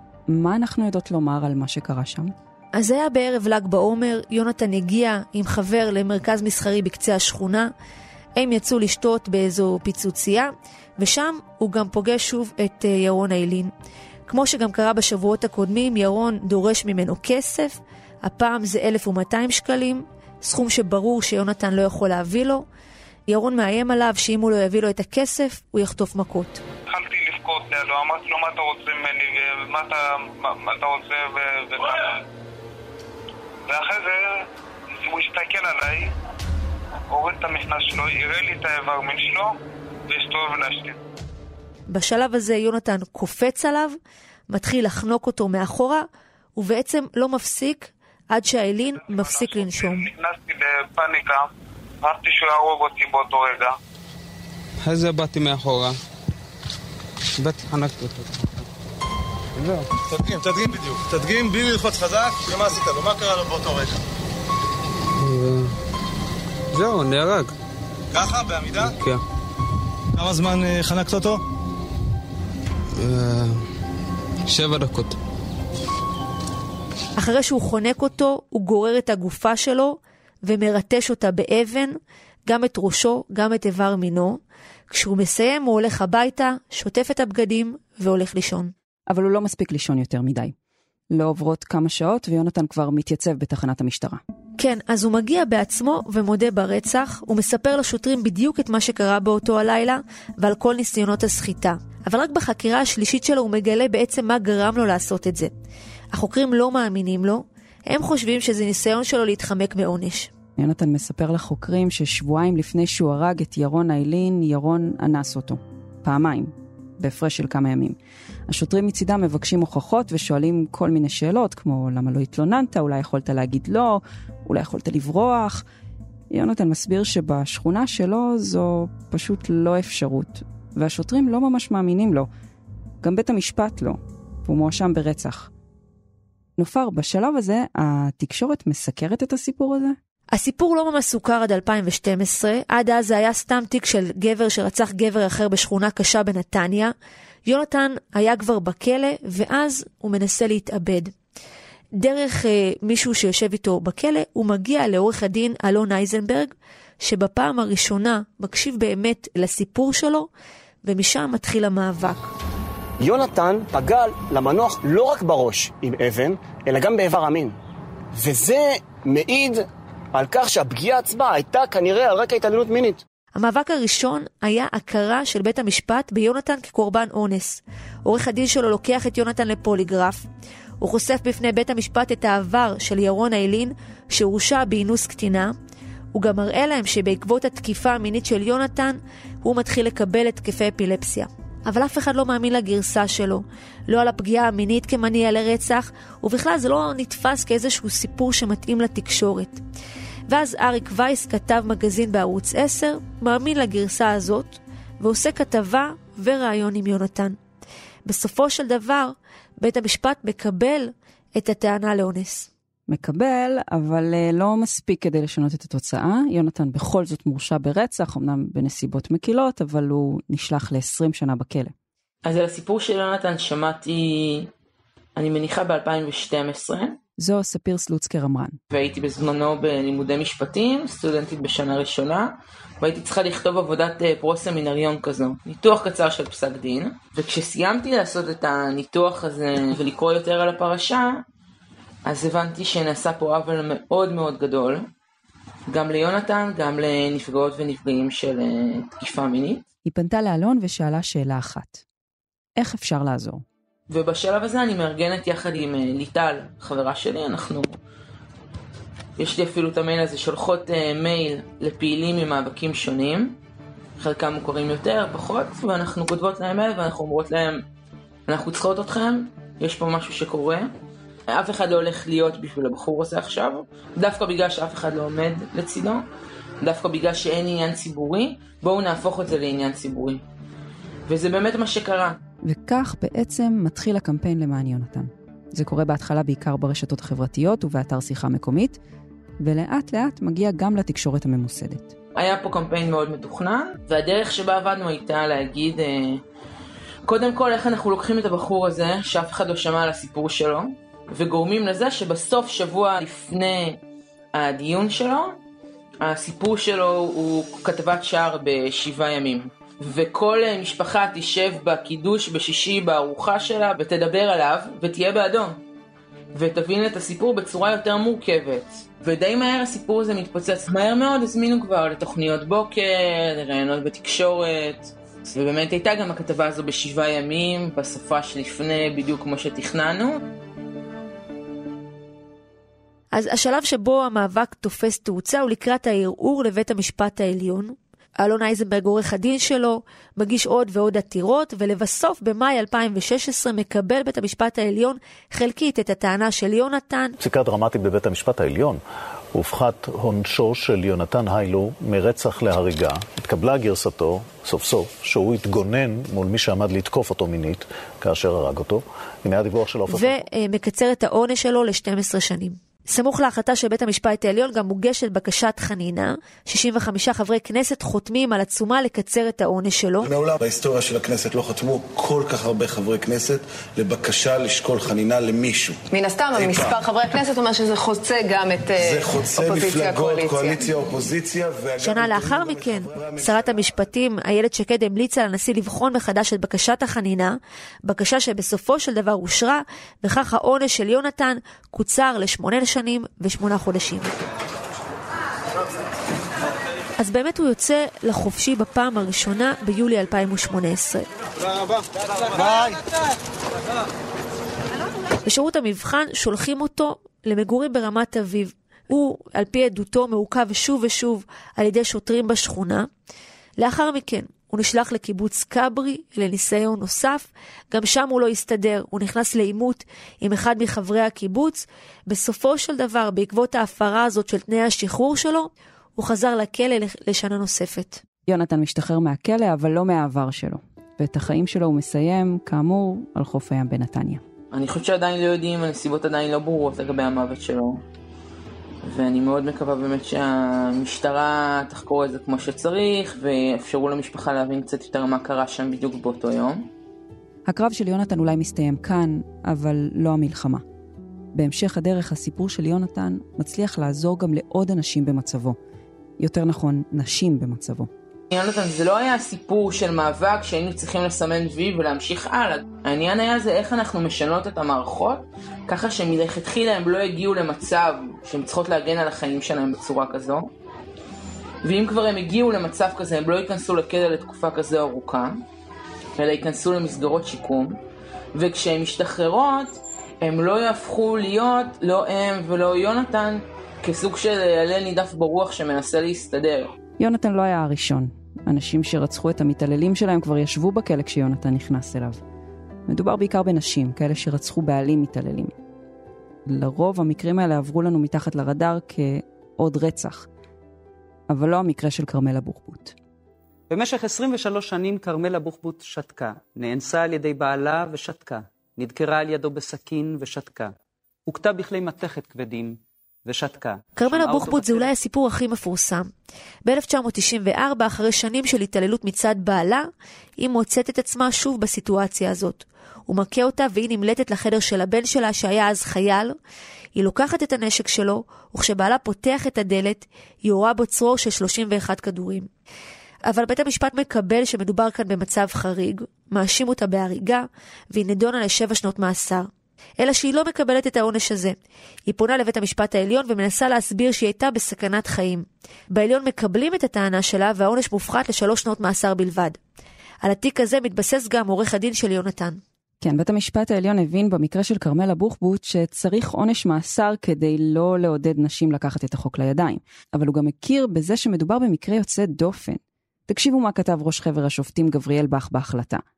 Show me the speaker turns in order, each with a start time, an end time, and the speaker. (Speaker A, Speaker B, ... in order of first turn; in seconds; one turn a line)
Speaker A: 0.3-2.3
Speaker B: 2.7-7.7
Speaker B: 8.3-13.7
Speaker B: 14.3-22.6
Speaker B: 23.3-26.6
Speaker C: 26.9-32.2
Speaker C: 33.7-34.4
Speaker C: 35.0-36.1
Speaker C: 37.1-39.5
Speaker C: 40.1-41.0
Speaker B: 41.9-44.0
Speaker B: 44.5-46.0
Speaker B: 46.5-50.1
Speaker C: 48.9-51.5
Speaker C: 52.0-53.8
Speaker D: 54.8-56.0
Speaker D: 57.4-58.5
Speaker D: 59.6-59.9
Speaker E: 60.1-63.9
Speaker D: 65.2-65.7
Speaker D: 66.7-67.5
Speaker E: 68.2-68.8
Speaker D: 68.8-69.2
Speaker E: 70.2-71.4
Speaker D: 73.0-73.6
Speaker D: 74.5-75.2
Speaker B: 77.2-81.9
Speaker B: 82.5-88.7
Speaker A: 89.1-90.5
Speaker A: 91.1-94.2
Speaker B: 94.6-105.5
Speaker B: 106.1-110.3
Speaker A: 110.6-118.0
Speaker A: 118.5-125.6
Speaker A: 126.3-132.3
Speaker A: 133.0-135.5
Speaker A: 136.6-139.9
Speaker B: 140.3-146.9
Speaker B: 147.4-151.1
Speaker B: 152.0-160.3
Speaker B: 160.8-162.3
Speaker F: 163.0-167.6
Speaker F: 168.1-173.0
Speaker B: 173.3-180.2
Speaker B: 180.8-185.5
Speaker B: 186.1-199.6
Speaker B: 200.3-207.4
Speaker B: 208.1-212.5
Speaker A: 212.9-221.7
Speaker G: 222.2-224.5
Speaker G: 225.2-227.0
Speaker A: 227.2-228.6
Speaker G: 228.7-241.2
Speaker G: 242.0-244.8
Speaker G: 245.7-249.6
Speaker A: 249.8-251.8
Speaker A: 252.6-253.4
Speaker G: 253.9-257.8
Speaker G: 259.2-263.4
Speaker G: 264.0-267.6
Speaker G: 268.3-270.7
Speaker G: 271.3-276.0
Speaker G: 276.6-280.2
Speaker G: 281.1-282.2
Speaker A: 282.4-288.8
Speaker A: 289.4-291.9
Speaker G: 292.1-296.2
Speaker G: 297.0-303.8
Speaker G: 304.3-305.4
Speaker G: 306.0-315.6
Speaker G: 316.3-330.2
Speaker B: 333.1-347.1
Speaker H: 347.2-348.8
Speaker H: 349.3-360.2
Speaker B: 359.9-370.1
Speaker I: 370.0-376.9
Speaker J: 375.9-380.8
Speaker I: 378.8-383.5
Speaker B: 381.8-394.1
Speaker B: 397.0-401.1
Speaker B: 405.2-412.9
Speaker B: 413.6-428.0
Speaker A: 428.3-434.2
Speaker G: 434.5-437.8
Speaker G: 438.8-446.7
Speaker A: 447.5-450.6
Speaker A: 451.3-455.6
Speaker A: 456.2-457.9
Speaker G: 458.3-470.5
Speaker G: 471.6-475.4
Speaker G: 476.2-477.8
Speaker G: 478.3-486.7
Speaker A: 487.0-492.2
Speaker A: 492.9-495.5
Speaker A: 496.4-500.3
Speaker A: 501.3-502.9
Speaker K: 503.7-510.7
Speaker K: 511.3-512.7
Speaker K: 513.4-514.8
Speaker B: 514.0-516.1
Speaker B: 516.6-519.9
Speaker B: 520.4-526.3
Speaker B: 527.0-532.5
Speaker B: 533.3-539.5
Speaker B: 540.0-541.5
Speaker B: 542.1-549.6
Speaker B: 550.2-552.6
Speaker A: 553.0-566.0